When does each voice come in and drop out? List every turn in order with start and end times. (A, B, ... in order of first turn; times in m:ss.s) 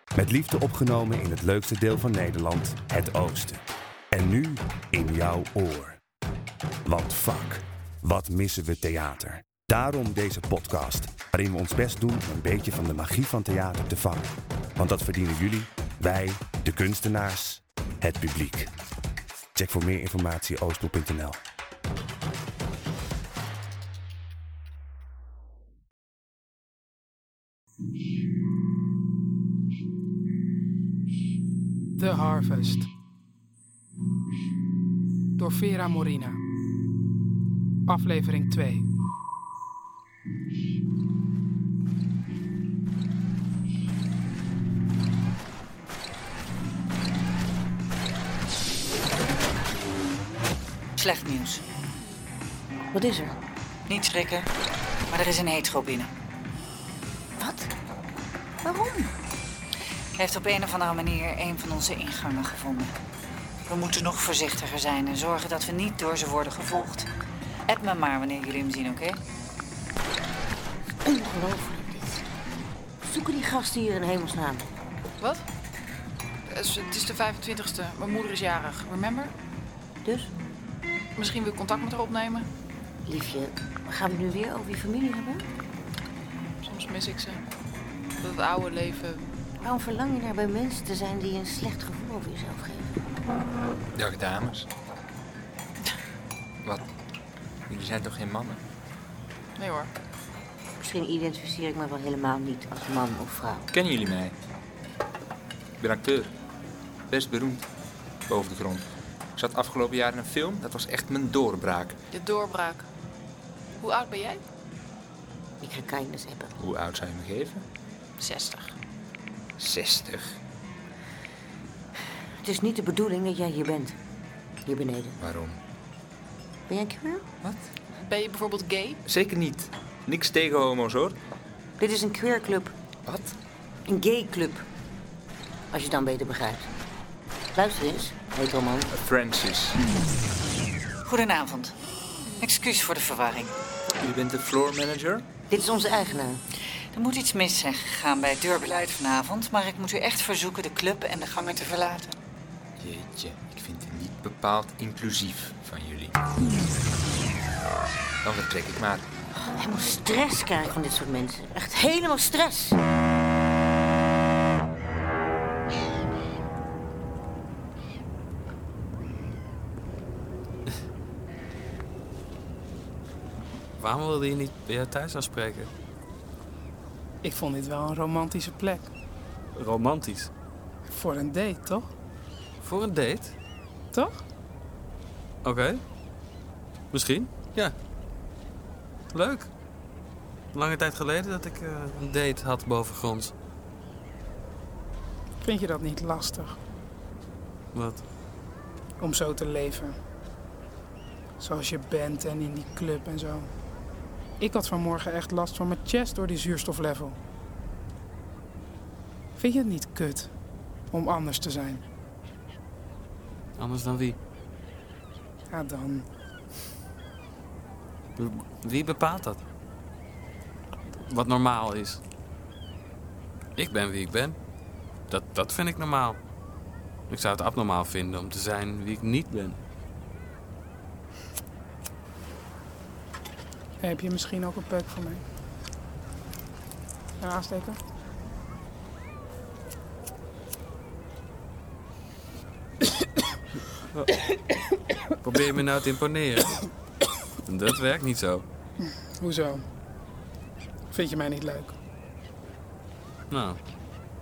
0:00.1-0:06.0 A
0:06.8-0:18.7 A
0:19.5-0:21.4 A
0:32.0-0:32.9 B
0:35.4-0:36.4 B
0:37.9-0:38.8 B
0:51.0-0:51.6 C
0:52.9-0:53.4 D
0:53.9-0:54.5 C
0:55.1-0:56.1 C
0:57.4-0:57.7 D
0:58.6-0:59.1 D
1:00.2-1:02.9 C
1:03.7-1:07.1 C
1:07.7-1:09.2 C
1:11.0-1:12.2 D
1:13.0-1:14.6 D
1:16.5-1:19.3 E
1:20.0-1:20.3 D
1:21.2-1:22.5 E
1:23.0-1:25.5 D
1:26.6-1:27.4 E
1:28.2-1:29.2 E
1:29.6-1:32.9 D
1:33.9-1:34.7 F
1:37.7-1:38.6 F
1:39.6-1:39.9 E
1:40.8-1:43.7 D
1:43.7-1:44.4 F
1:45.8-1:46.3 F
1:47.1-1:47.7 F
1:48.3-1:52.0 F
1:52.1-1:52.9 E
1:53.8-1:54.4 E
1:55.6-1:56.6 D
1:56.6-1:57.6 F
1:58.2-1:58.7 E
1:59.6-2:00.4 F
2:02.4-2:04.0 D
2:04.6-2:05.1 D
2:05.2-2:05.6 F
2:06.7-2:07.2 D
2:07.4-2:07.7 F
2:08.0-2:09.0 E
2:09.0-2:11.2 F
2:11.8-2:12.7 D
2:13.0-2:13.4 F
2:13.9-2:14.6 D
2:15.7-2:16.7 D
2:17.5-2:18.9 D
2:18.9-2:19.8 F
2:21.0-2:21.7 C
2:22.4-2:23.5 C
2:24.0-2:25.3 F
2:25.5-2:26.4 D
2:26.9-2:32.2 C
2:32.8-2:36.2 F
2:38.2-2:39.1 F
2:39.4-2:42.8 D
2:53.8-2:55.7 G
2:57.2-2:58.9 B
2:59.5-3:00.3 G
3:00.8-3:01.9 B
3:02.6-3:03.3 G
3:03.9-3:04.2 B
3:05.4-3:05.8 G
3:06.9-3:07.7 G
3:09.1-3:09.5 G
3:10.5-3:13.3 G
3:15.4-3:16.6 B
3:17.7-3:18.0 G
3:19.0-3:20.0 B
3:21.4-3:23.5 B
3:24.4-3:27.2 B
3:29.4-3:30.3 B
3:30.9-3:31.8 B
3:33.6-3:34.2 G
3:35.5-3:36.1 B
3:38.2-3:39.4 G
3:40.9-3:42.0 G
3:43.6-3:44.4 G
3:45.1-3:46.2 G
3:47.1-3:49.6 G
3:53.8-3:55.2 B
3:57.2-3:57.8 B
4:05.2-4:06.6 G
4:07.4-4:08.4 G
4:08.8-4:09.6 B
4:10.9-4:11.8 B
4:13.3-4:13.6 G